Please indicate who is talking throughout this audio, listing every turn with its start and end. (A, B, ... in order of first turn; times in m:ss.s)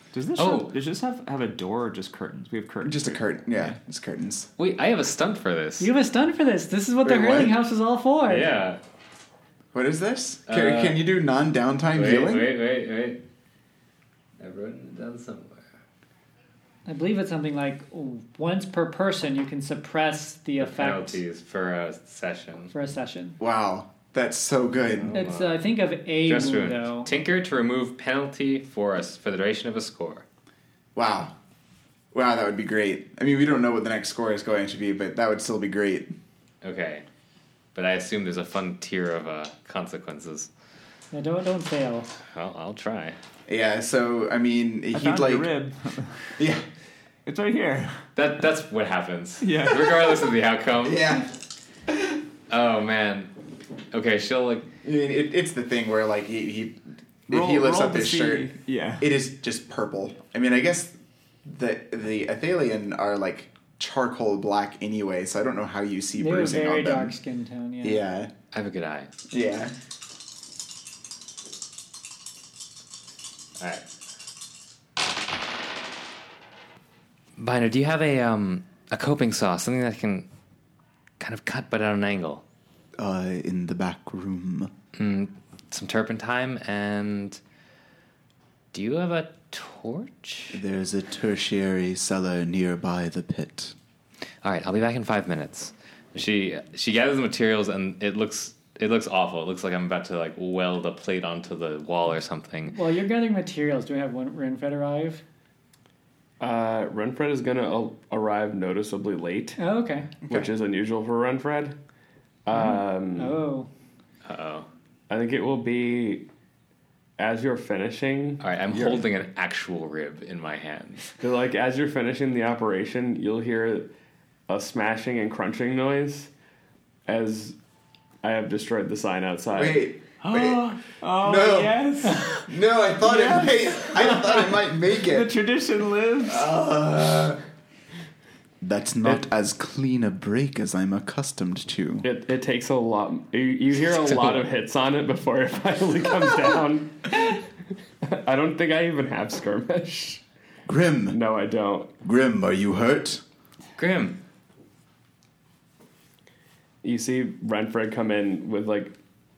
0:00.1-0:03.2 A
0:00.4-0:00.7 B
0:02.8-0:04.5 C
0:04.6-0:05.9 B
0:05.8-0:08.5 D
0:07.1-0:07.5 B
0:08.2-0:08.8 B
0:09.7-0:12.6 C
0:10.5-0:11.0 B
0:11.9-0:13.2 B
0:14.4-0:15.7 B
0:16.9-0:21.2 D
0:20.6-0:22.7 B
0:22.7-0:23.4 D
0:23.4-0:25.2 C
0:24.9-0:25.6 B
0:25.2-0:27.1 D
0:26.2-0:30.2 B
0:31.0-0:31.4 C
0:32.1-0:36.2 C
0:36.6-0:37.0 B
0:37.8-0:40.5 B
0:41.1-0:42.1 D
0:42.2-0:43.2 B
0:43.5-0:45.5 C
0:44.9-0:46.3 A
0:46.4-0:46.6 C
0:47.2-0:48.0 A
0:48.2-0:51.2 B
0:49.4-0:50.3 A
0:50.8-0:51.3 C
0:52.5-0:53.3 B
0:53.9-0:54.7 B
0:54.8-1:07.2 C
0:57.3-0:59.1 A
1:06.2-1:08.0 D
1:07.8-1:08.3 C
1:08.5-1:09.1 B
1:09.3-1:09.8 C
1:13.6-1:13.9 B
1:17.4-1:20.3 B
1:21.2-1:22.4 B
1:23.0-1:24.7 C
1:25.0-1:27.4 B
1:28.7-1:30.6 B
1:30.5-1:33.8 C
1:34.4-1:42.8 B
1:42.7-1:45.2 D
1:46.4-1:49.6 E
1:49.6-1:50.1 D
1:50.2-1:51.8 E
1:52.4-1:53.4 E
1:53.2-1:53.7 D
1:54.2-1:54.7 B
1:55.1-1:56.3 E
1:57.2-1:59.1 E
1:58.4-2:01.1 B
2:01.2-2:03.9 E
2:04.5-2:06.3 E
2:07.1-2:07.6 E
2:08.2-2:09.9 E
2:09.6-2:10.6 C
2:10.2-2:12.5 A
2:11.2-2:15.3 C
2:13.0-2:16.5 A
2:16.2-2:17.4 C
2:18.6-2:22.1 C
2:22.0-2:27.5 E
2:28.0-2:30.2 E
2:30.7-2:31.2 C
2:31.1-2:31.9 E
2:32.0-2:33.2 C
2:33.8-2:34.2 B
2:36.8-2:39.0 E